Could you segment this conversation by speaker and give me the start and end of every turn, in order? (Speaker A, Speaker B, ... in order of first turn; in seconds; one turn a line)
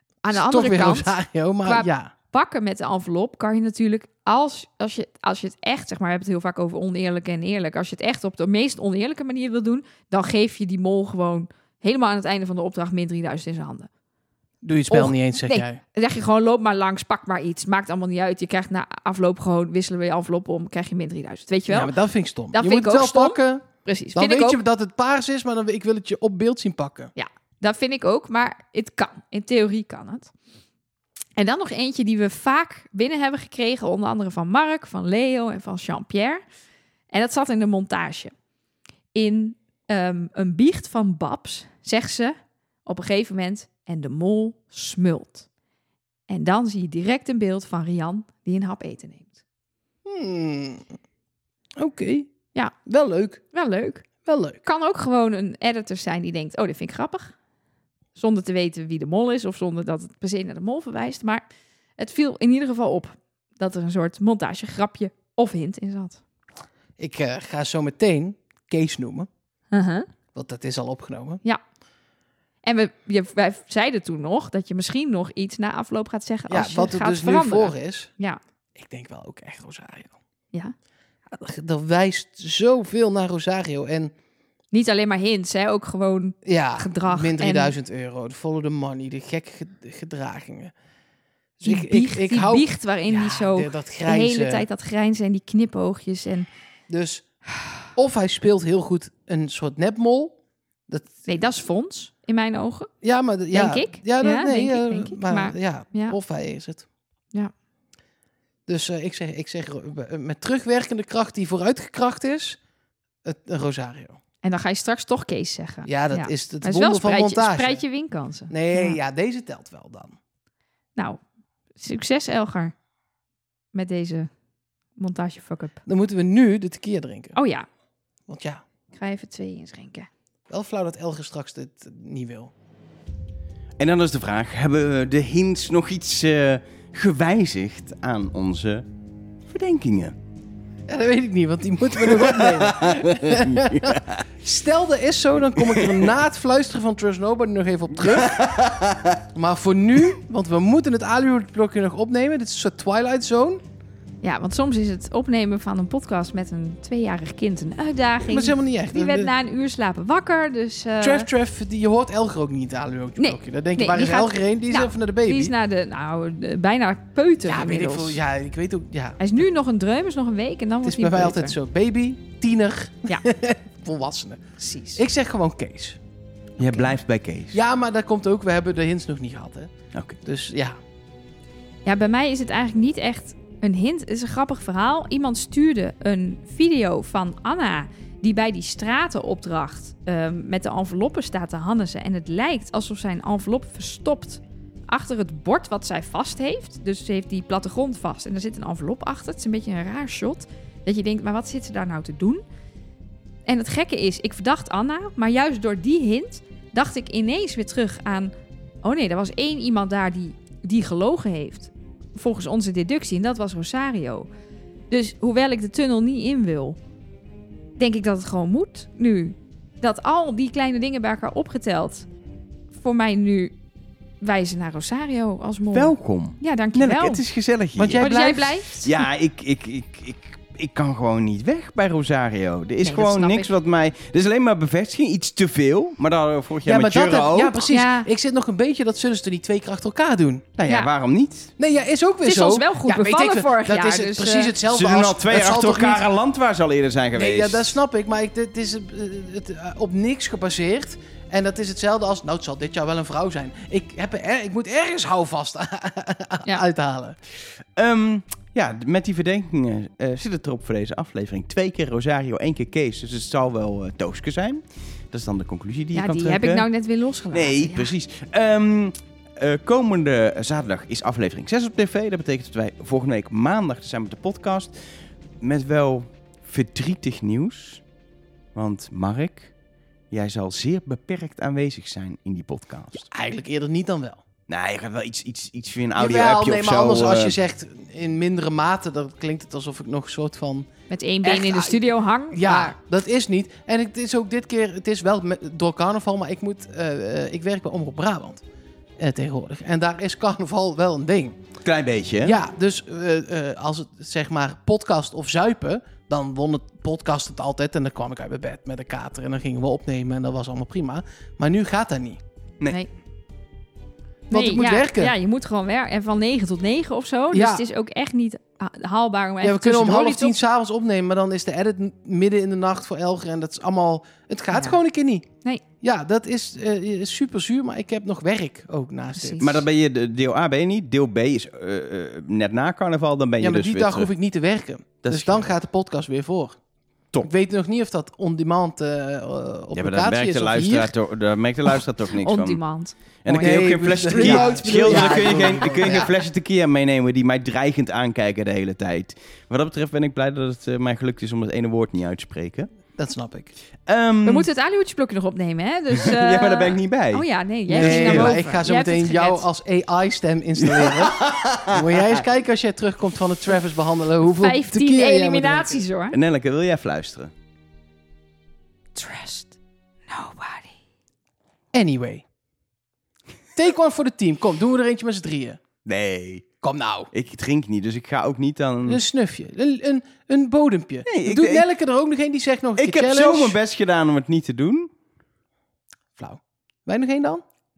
Speaker A: 0.2-13.9
Speaker B: 0.3-2.1
Speaker B: 14.6-15.8
Speaker A: 14.9-21.9
Speaker B: 21.7-27.1
Speaker A: 22.5-24.6
Speaker A: 27.1-30.3
Speaker A: 31.4-36.4
Speaker A: 37.1-38.3
Speaker A: 39.1-45.5
Speaker A: 46.3-49.4
Speaker B: 50.0-51.0
Speaker B: 51.8-52.3
Speaker B: 52.9-53.4
Speaker A: 53.5-54.1
Speaker B: 54.2-54.6
Speaker A: 54.6-57.3
Speaker A: 58.1-61.4
Speaker A: 62.0-66.2
Speaker B: 67.0-69.3
Speaker A: 69.7-70.1
Speaker B: 70.3-71.4
Speaker A: 72.6-78.4
Speaker B: 76.5-78.1
Speaker B: 78.8-80.1
Speaker B: 81.3-84.1
Speaker A: 84.7-87.7
Speaker B: 86.4-90.7
Speaker B: 91.6-94.7
Speaker A: 91.7-96.5
Speaker B: 96.9-97.3
Speaker B: 97.9-101.1
Speaker A: 101.2-102.9
Speaker B: 103.0-106.8
Speaker A: 103.5-106.2
Speaker B: 108.7-112.6
Speaker B: 113.2-114.2
Speaker A: 114.4-119.0
Speaker B: 115.8-117.8
Speaker B: 118.5-120.2
Speaker A: 121.0-121.2
Speaker A: 121.8-122.7
Speaker A: 123.7-124.3
Speaker A: 125.0-125.8
Speaker B: 125.8-127.4
Speaker A: 127.3-127.7
Speaker B: 128.3-128.6
Speaker A: 128.9-130.1
Speaker B: 130.5-132.5
Speaker C: 133.8-138.8
Speaker C: 139.5-140.1
Speaker B: 140.9-148.5
Speaker C: 142.1-144.2
Speaker C: 148.2-149.2
Speaker B: 149.3-153.6
Speaker A: 154.2-161.3
Speaker B: 158.3-159.3
Speaker B: 161.0-165.5
Speaker A: 163.2-168.2
Speaker B: 167.4-169.2
Speaker A: 169.2-171.5
Speaker B: 170.8-174.4
Speaker A: 174.6-175.0
Speaker B: 174.9-176.0
Speaker C: 176.6-177.6
Speaker B: 177.5-180.8
Speaker A: 181.8-202.4
Speaker A: 203.4-208.3
Speaker A: 208.8-214.3
Speaker A: 214.9-216.8
Speaker A: 217.8-222.1
Speaker A: 222.7-223.5
Speaker A: 224.2-227.2
Speaker C: 225.7-228.1
Speaker B: 227.8-228.6
Speaker A: 228.0-229.0
Speaker C: 228.8-237.6
Speaker A: 232.8-233.5
Speaker B: 236.6-240.5
Speaker A: 237.7-238.1
Speaker C: 240.6-241.5
Speaker B: 241.6-246.0
Speaker A: 242.2-244.5
Speaker C: 244.7-247.8
Speaker B: 247.1-257.2
Speaker C: 257.8-266.6
Speaker A: 265.9-267.9
Speaker C: 267.3-274.8
Speaker C: 275.4-277.8
Speaker C: 278.5-279.5
Speaker C: 280.1-283.1
Speaker B: 283.1-284.2
Speaker C: 284.5-287.4
Speaker B: 286.0-290.7
Speaker A: 290.9-292.7
Speaker B: 291.2-298.4
Speaker B: 299.0-301.4
Speaker C: 301.6-302.4
Speaker B: 302.2-312.2
Speaker B: 314.3-315.1
Speaker A: 314.3-320.4
Speaker B: 317.3-317.6
Speaker B: 319.4-325.3
Speaker A: 324.5-324.8
Speaker B: 325.8-329.6
Speaker A: 329.1-329.6
Speaker C: 329.4-334.1
Speaker B: 333.4-336.6
Speaker C: 335.0-335.5
Speaker B: 337.2-340.9
Speaker C: 339.7-342.6
Speaker A: 342.1-346.1
Speaker C: 343.2-352.7
Speaker B: 343.3-346.1
Speaker B: 352.9-353.5
Speaker C: 353.9-354.5
Speaker A: 354.2-359.4
Speaker C: 356.0-357.2
Speaker B: 357.7-365.8
Speaker C: 357.7-358.3
Speaker C: 360.6-362.2
Speaker A: 364.2-366.1
Speaker C: 366.1-367.3
Speaker A: 368.9-369.5
Speaker A: 370.1-370.7
Speaker B: 371.7-372.2
Speaker B: 373.5-375.6
Speaker C: 375.8-376.4
Speaker B: 376.6-377.1
Speaker C: 377.1-379.0
Speaker B: 378.9-383.6
Speaker C: 381.1-381.6
Speaker C: 382.8-384.9
Speaker B: 386.2-387.4